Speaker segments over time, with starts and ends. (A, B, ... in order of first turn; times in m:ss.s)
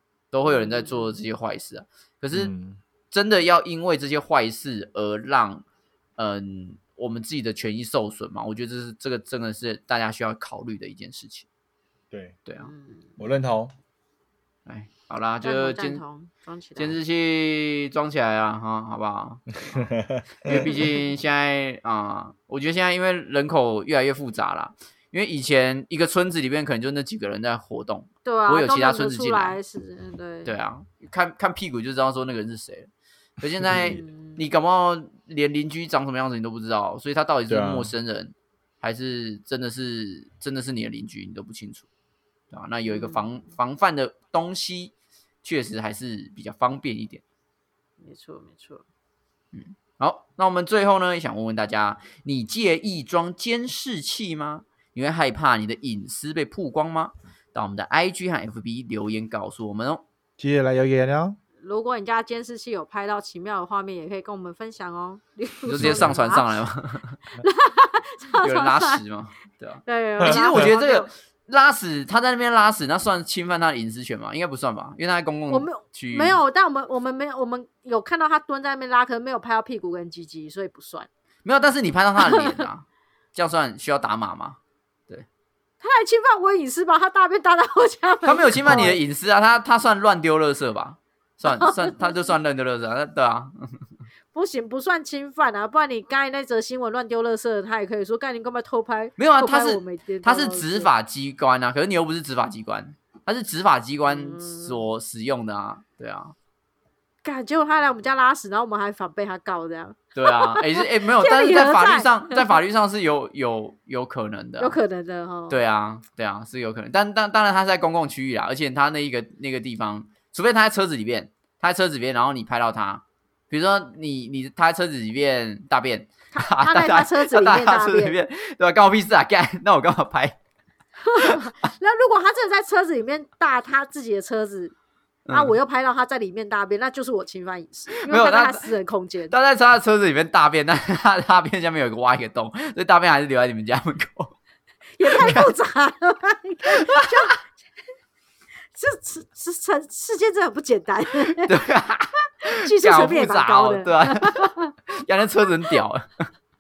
0:00.3-0:02.5 A
0:00.4-0:01.1 B
0:02.3-0:02.8 C
0:03.1-0:05.6 A
0:06.2-0:11.4 A
0:12.1-0:12.4 C
0:12.6-0:13.2 B
0:13.2-0:13.7 C
0:14.6-0:16.0 A
0:15.4-0:17.0 B
0:16.8-0:19.9 A
0:19.7-0:20.8 C
0:20.4-0:29.6 A
0:28.2-0:30.5 B
0:30.4-0:32.9 A
0:33.4-0:41.9 A
0:33.6-0:34.0 C
0:33.7-0:34.4 B
0:37.5-0:37.9 C
0:42.5-0:44.9 A
0:42.8-0:43.3 B
0:45.4-0:47.2 A
0:48.0-0:48.8 B
0:49.5-1:00.0 A
1:00.4-1:01.4 C
1:01.6-1:06.6 B
1:05.6-1:07.2 A
1:05.8-1:06.2 C
1:07.4-1:09.0 B
1:08.4-1:16.4 A
1:09.8-1:11.1 B
1:15.5-1:21.1 B
1:21.4-1:24.6 A
1:22.2-1:22.6 B
1:25.8-1:29.0 B
1:28.2-1:33.9 A
1:31.5-1:32.2 B
1:34.3-1:40.9 B
1:39.2-1:46.3 A
1:44.1-1:44.8 B
1:47.2-1:52.6 B
1:50.2-1:54.8 A
1:54.6-1:55.6 B
1:55.5-2:10.4 A
2:06.3-2:08.1 B
2:11.0-2:14.7 B
2:15.2-2:15.5 A
2:15.3-2:19.3 B
2:18.0-2:18.7 A
2:19.3-2:24.3 A
2:25.0-2:27.4 B
2:25.1-2:25.5 A
2:26.7-2:27.1 A
2:28.7-2:31.6 B
2:31.4-2:36.3 A
2:32.5-2:34.7 B